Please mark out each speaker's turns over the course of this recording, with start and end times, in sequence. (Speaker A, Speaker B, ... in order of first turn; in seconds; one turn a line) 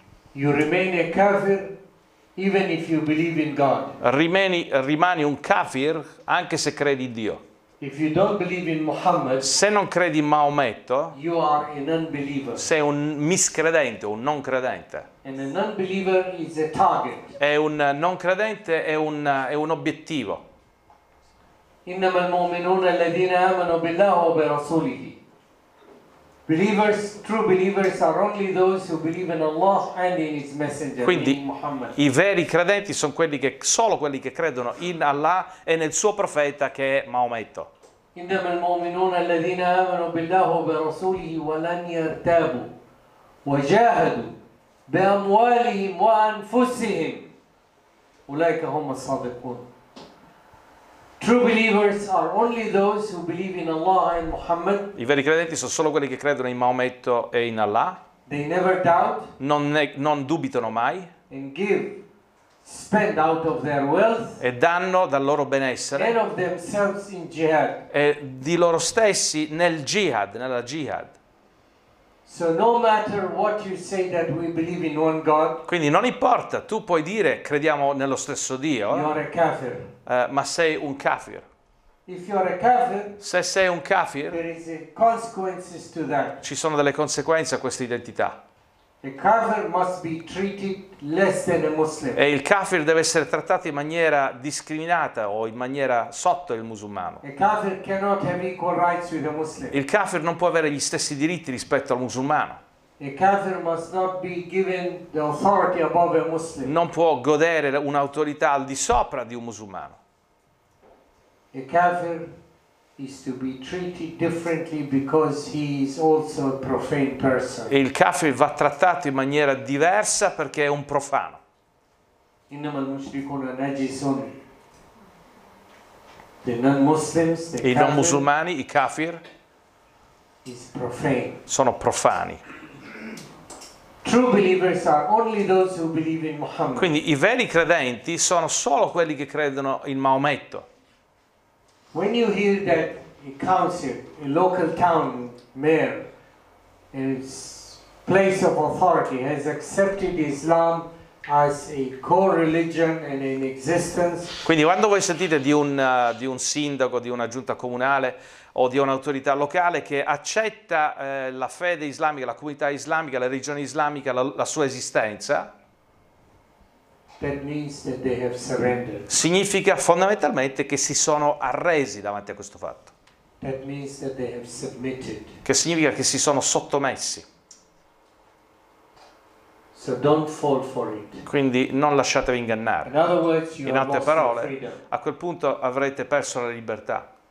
Speaker A: 0.3-1.7
Speaker A: 2.4-4.0
Speaker B: 4.0-7.4
Speaker A: 7.8-9.5
Speaker B: 9.4-11.2
Speaker A: 11.1-12.7
Speaker B: 12.6-15.1
Speaker A: 15.2-17.4
Speaker B: 17.4-20.4
Speaker A: 21.9-25.2
Speaker A: 26.5-32.0
Speaker B: 31.0-31.4
Speaker B: 32.0-37.7
Speaker A: 38.1-42.7
Speaker A: 43.4-44.4
Speaker A: 44.9-47.3
Speaker A: 48.3-49.6
Speaker A: 51.2-54.9
Speaker B: 55.0-58.0
Speaker A: 58.3-59.3
Speaker B: 59.4-61.1
Speaker A: 61.3-62.0
Speaker A: 62.6-64.4
Speaker B: 64.4-66.2
Speaker A: 66.0-67.9
Speaker B: 67.9-71.1
Speaker A: 72.3-75.6
Speaker B: 75.7-79.1
Speaker A: 78.9-79.9
Speaker B: 80.1-81.5
Speaker A: 82.1-83.2
Speaker B: 83.2-84.4
Speaker A: 84.3-86.4
Speaker B: 86.4-88.4
Speaker A: 89.0-92.2
Speaker B: 92.2-97.2
Speaker A: 97.2-99.8
Speaker B: 99.7-102.6
Speaker A: 103.0-106.7
Speaker B: 106.6-110.0
Speaker A: 111.5-112.3
Speaker A: 113.0-117.8
Speaker B: 117.7-121.4
Speaker A: 122.5-124.4
Speaker A: 126.4-128.3
Speaker B: 127.6-129.2
Speaker A: 130.4-131.4
Speaker B: 131.5-132.4
Speaker A: 134.0-136.9
Speaker B: 136.8-140.7
Speaker A: 141.9-146.1
Speaker A: 146.9-154.4
Speaker B: 154.4-165.5
Speaker A: 167.2-169.1
Speaker B: 169.1-172.9
Speaker A: 173.4-175.4
Speaker B: 175.4-177.2
Speaker A: 179.7-181.3
Speaker B: 181.3-182.9
Speaker A: 182.8-184.8
Speaker B: 183.7-187.1